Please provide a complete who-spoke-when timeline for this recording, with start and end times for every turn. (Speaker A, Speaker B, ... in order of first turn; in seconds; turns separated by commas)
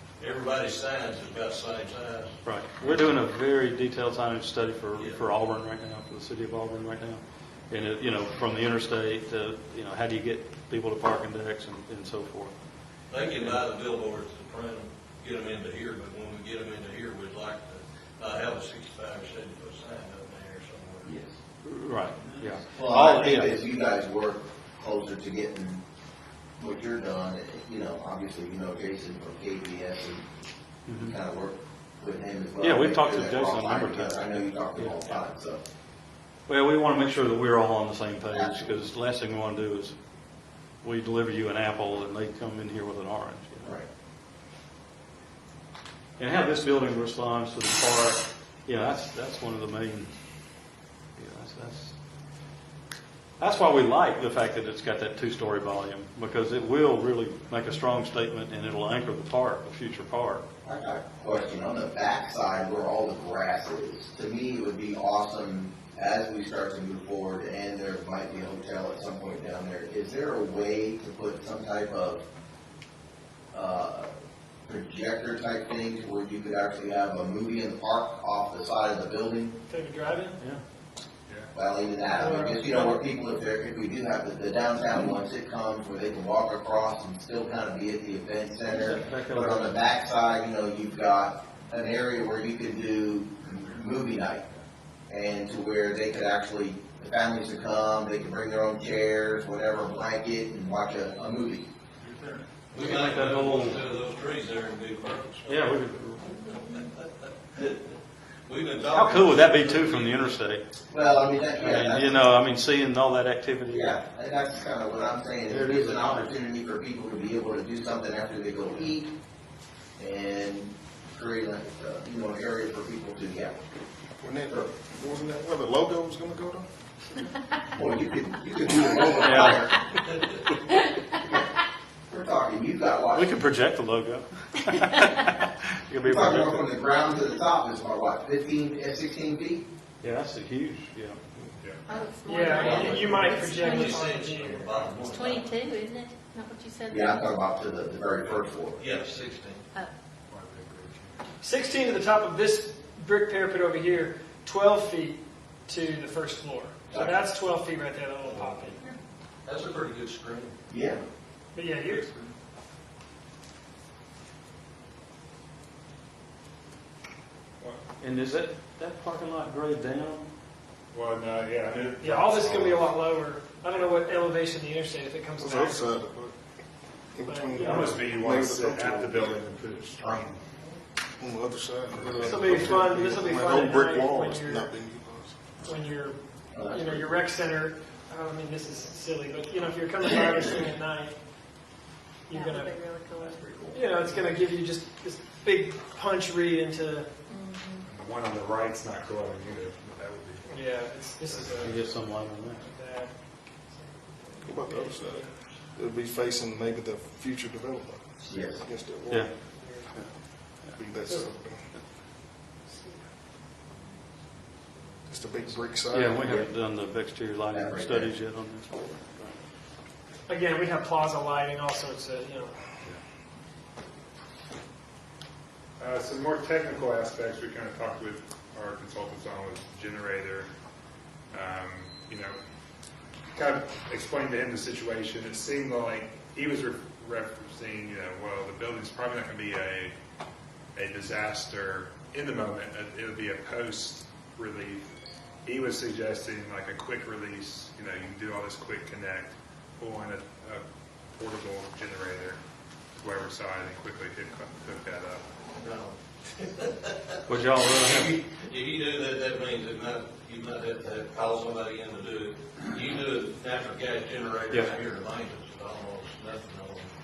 Speaker A: 0.2-3.0, Speaker B: 2.4-12.6, Speaker A: 5.0-5.2, Speaker A: 13.1-21.1, Speaker B: 13.1-13.6, Speaker C: 21.1-21.3, Speaker B: 21.6-23.5, Speaker A: 22.2-22.6, Speaker C: 22.7-25.8, Speaker C: 26.6-30.4, Speaker B: 30.9-31.2, Speaker C: 31.0-35.6, Speaker B: 32.6-35.2, Speaker B: 36.5-39.9, Speaker C: 38.3-38.9, Speaker B: 40.8-43.8, Speaker B: 46.2-50.1, Speaker B: 51.2-51.9, Speaker B: 53.4-60.4, Speaker C: 60.6-72.2, Speaker C: 73.5-74.1, Speaker C: 74.7-79.5, Speaker D: 79.7-80.4, Speaker E: 81.3-81.5, Speaker C: 81.5-94.5, Speaker D: 82.2-82.9, Speaker B: 88.7-89.8, Speaker C: 95.1-101.7, Speaker A: 102.7-105.6, Speaker B: 102.8-103.8, Speaker B: 105.5-106.4, Speaker A: 106.5-107.9, Speaker A: 108.5-110.3, Speaker B: 108.9-110.6, Speaker C: 110.9-112.4, Speaker B: 111.4-114.0, Speaker C: 113.7-119.1, Speaker B: 115.5-116.4, Speaker C: 120.0-123.6, Speaker F: 124.2-126.7, Speaker C: 127.8-129.8, Speaker B: 129.2-129.6, Speaker C: 132.1-133.3, Speaker B: 133.1-136.7, Speaker C: 136.0-139.7, Speaker B: 140.0-141.2, Speaker G: 141.9-143.9, Speaker D: 142.2-144.7, Speaker C: 142.5-143.1, Speaker A: 143.6-145.5, Speaker E: 144.6-145.0, Speaker G: 145.0-147.2, Speaker C: 146.9-148.8, Speaker A: 148.8-149.6, Speaker E: 150.3-151.2, Speaker D: 151.4-158.9, Speaker A: 159.4-160.6, Speaker C: 160.7-161.0, Speaker D: 161.5-162.3, Speaker B: 168.0-170.2, Speaker E: 170.9-172.9, Speaker D: 172.0-176.0, Speaker F: 175.4-176.4, Speaker F: 177.1-179.5, Speaker D: 177.2-177.9, Speaker E: 177.6-180.4, Speaker F: 181.2-185.6, Speaker D: 182.2-184.7, Speaker D: 185.6-191.2, Speaker C: 186.5-187.2, Speaker D: 192.3-197.1, Speaker G: 192.3-193.9, Speaker G: 197.3-197.8, Speaker E: 197.8-200.6, Speaker D: 200.5-205.6, Speaker E: 201.3-201.6, Speaker B: 201.6-202.6, Speaker F: 204.4-209.3, Speaker C: 208.3-208.6, Speaker D: 209.5-210.1, Speaker F: 210.6-211.7, Speaker D: 212.7-213.1, Speaker F: 215.1-216.4, Speaker B: 215.8-219.4, Speaker C: 217.5-218.1, Speaker D: 220.3-222.6, Speaker E: 225.8-230.5, Speaker E: 231.3-232.4, Speaker E: 233.3-239.9, Speaker E: 240.8-244.9, Speaker E: 245.4-250.6, Speaker E: 251.1-252.4, Speaker E: 253.0-255.2, Speaker A: 255.6-266.9, Speaker B: 257.3-258.2, Speaker B: 264.5-264.8